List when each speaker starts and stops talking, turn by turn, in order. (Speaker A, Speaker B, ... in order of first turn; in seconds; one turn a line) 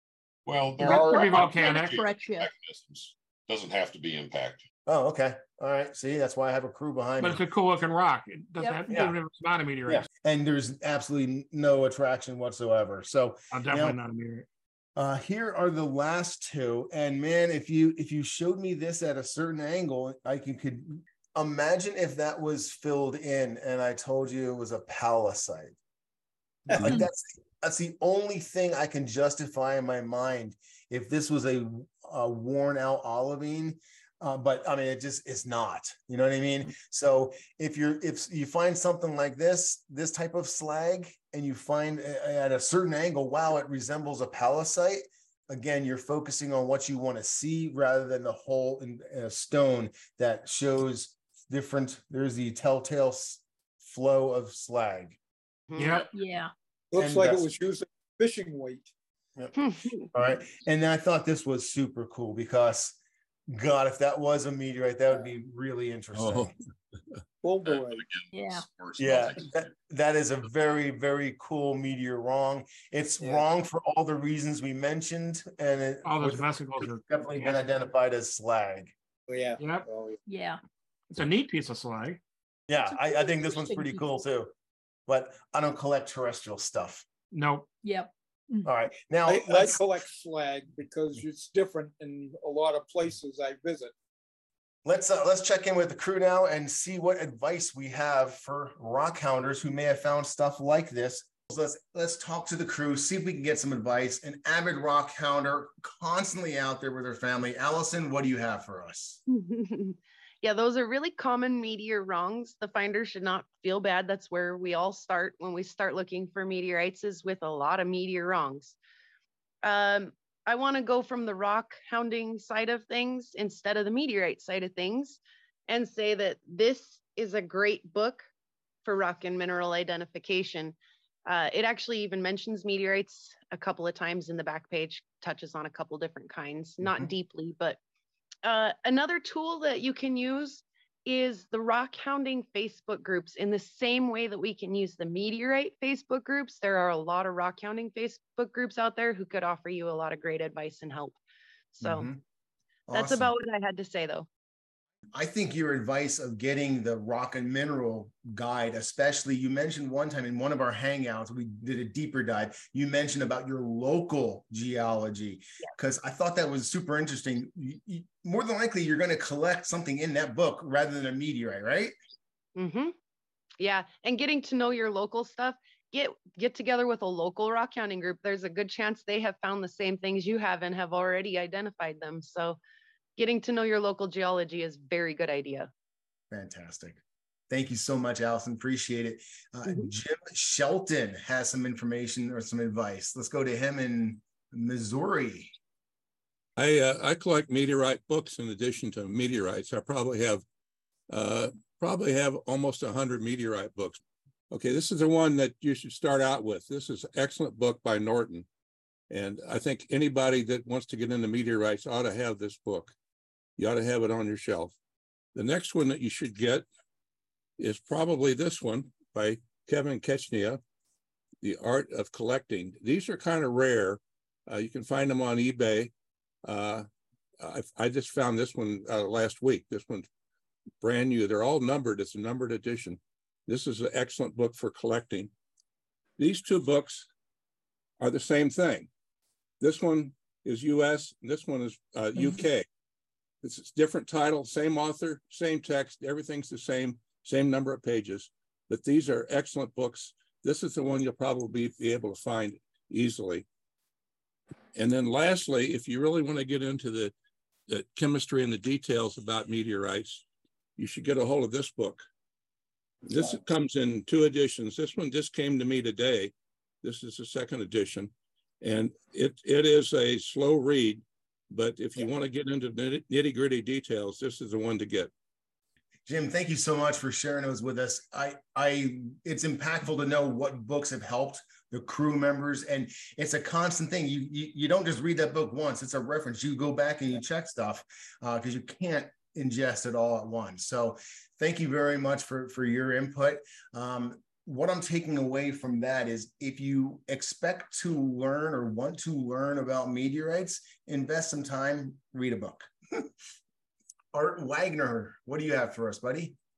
Speaker A: 0.5-4.7
Speaker B: 0.8-2.5
Speaker C: 0.8-2.0
Speaker D: 4.8-7.4
Speaker C: 7.2-10.1
Speaker B: 8.6-8.9
Speaker D: 8.9-9.1
Speaker D: 9.8-14.0
Speaker C: 13.5-14.4
Speaker D: 14.9-25.8
Speaker D: 26.7-55.2
Speaker E: 55.7-56.0
Speaker C: 55.8-56.1
Speaker B: 56.1-56.5
Speaker F: 56.9-58.9
Speaker D: 57.0-57.5
Speaker E: 59.5-60.1
Speaker D: 60.1-63.0
Speaker D: 63.5-66.5
Speaker G: 66.2-66.5
Speaker F: 67.4-68.0
Speaker A: 67.7-69.7
Speaker B: 68.3-68.7
Speaker D: 69.0-78.9
Speaker C: 76.0-77.6
Speaker F: 79.3-80.2
Speaker C: 79.6-79.8
Speaker B: 80.2-80.6
Speaker C: 81.1-82.2
Speaker D: 82.7-84.5
Speaker B: 82.9-84.0
Speaker D: 85.1-87.0
Speaker C: 87.3-87.7
Speaker B: 87.8-88.7
Speaker D: 88.6-89.8
Speaker F: 89.3-93.9
Speaker D: 94.8-109.2
Speaker E: 109.3-118.8
Speaker E: 119.6-128.2
Speaker E: 128.8-137.8
Speaker D: 136.8-137.1
Speaker E: 138.4-151.1
Speaker E: 151.8-152.1
Speaker D: 151.8-152.2
Speaker D: 152.9-153.3
Speaker E: 152.9-154.3
Speaker D: 155.1-171.9
Speaker E: 172.6-172.9
Speaker E: 173.6-182.6
Speaker E: 183.2-185.7
Speaker D: 186.3-195.5
Speaker G: 196.6-200.4
Speaker G: 201.1-208.5
Speaker G: 209.1-212.9
Speaker G: 213.6-214.7
Speaker G: 215.3-216.7
Speaker G: 217.6-220.6
Speaker G: 221.4-225.9
Speaker G: 226.4-226.9
Speaker G: 227.4-230.1
Speaker G: 230.8-235.3
Speaker G: 236.2-237.1
Speaker G: 238.0-238.9
Speaker G: 239.6-242.7
Speaker G: 243.4-253.4
Speaker G: 254.7-257.1
Speaker G: 257.7-260.2
Speaker G: 260.8-262.1
Speaker G: 263.0-275.1
Speaker D: 276.1-303.1
Speaker D: 304.1-306.4